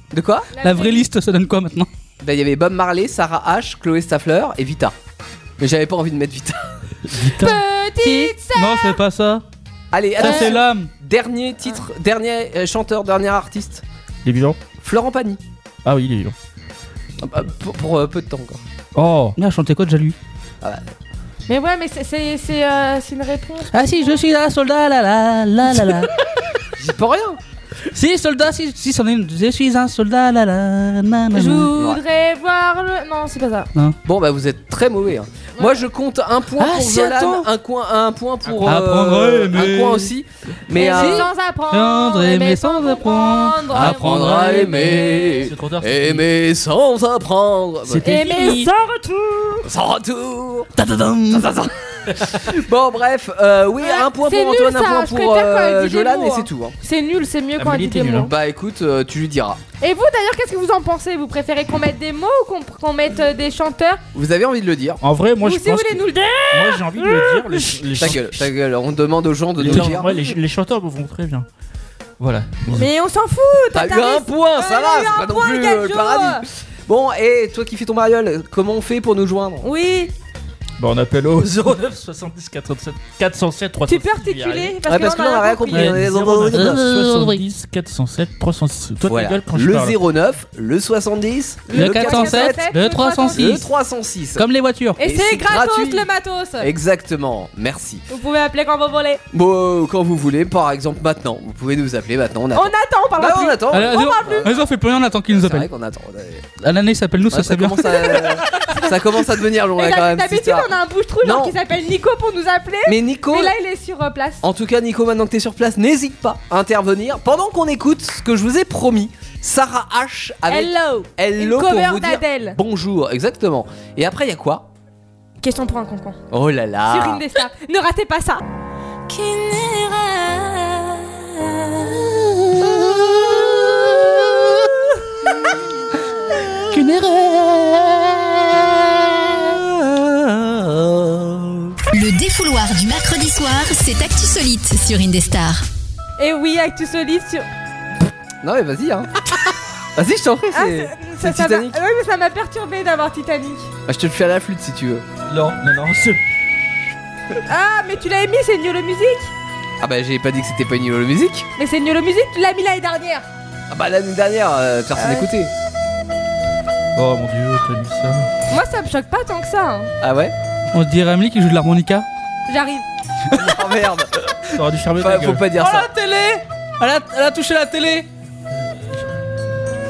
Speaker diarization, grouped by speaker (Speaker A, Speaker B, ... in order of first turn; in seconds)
Speaker A: 0.1-0.5, 2.2-5.0, 5.6-6.6, 9.9-13.8, 14.8-15.4, 17.2-18.6, 26.8-27.4, 31.8-32.0, 34.0-41.3, 43.7-48.1, 49.6-50.7, 51.3-56.8, 58.3-59.6, 64.2-65.0, 68.0-70.3, 73.7-79.7, 84.9-86.8, 89.0-92.7, 93.3-94.5, 95.0-96.1, 96.6-98.1, 99.3-104.6, 105.3-106.5, 107.3-111.5, 112.9-113.5, 114.4-124.7, 126.3-127.2, 148.4-149.1, 150.0-151.8, 153.9-155.1, 159.8-161.5, 163.7-165.5, 170.0-170.3, 173.3-174.2, 175.0-175.9
Speaker B: 0.5-1.1, 7.4-9.0, 10.2-10.6, 21.5-24.2, 31.3-33.7, 40.7-45.5, 48.0-49.6, 53.8-58.3, 59.8-64.0, 65.4-68.0, 72.7-76.4, 79.6-80.1, 83.9-85.9, 91.7-93.6, 95.0-96.7, 98.1-99.2, 102.5-104.5, 108.5-109.0, 109.8-114.4, 120.5-122.6, 125.4-126.2, 126.9-128.4, 146.2-147.5, 150.5-153.7, 157.5-159.3, 161.6-163.2, 165.0-165.3, 168.5-169.9, 172.5-172.9
Speaker C: 0.6-1.9, 8.0-9.4, 10.2-10.9, 19.4-20.2, 23.7-26.1, 27.9-31.7, 36.6-37.5, 38.6-40.1, 40.8-44.5, 50.8-51.5, 85.7-87.4, 91.7-93.7, 94.4-95.0, 103.7-105.7, 106.6-108.4, 136.7-139.6, 170.7-172.1, 173.3-173.6, 175.6-178.1
Speaker D: 7.1-7.6, 14.2-14.6, 15.8-16.4, 18.9-19.4, 38.5-38.8, 43.8-46.2, 47.9-48.7, 57.6-58.3, 65.0-68.5, 69.6-71.5, 72.2-72.9, 80.8-84.8, 85.8-90.0, 155.3-156.2, 167.0-168.3, 174.5-175.5
Speaker E: 141.9-145.7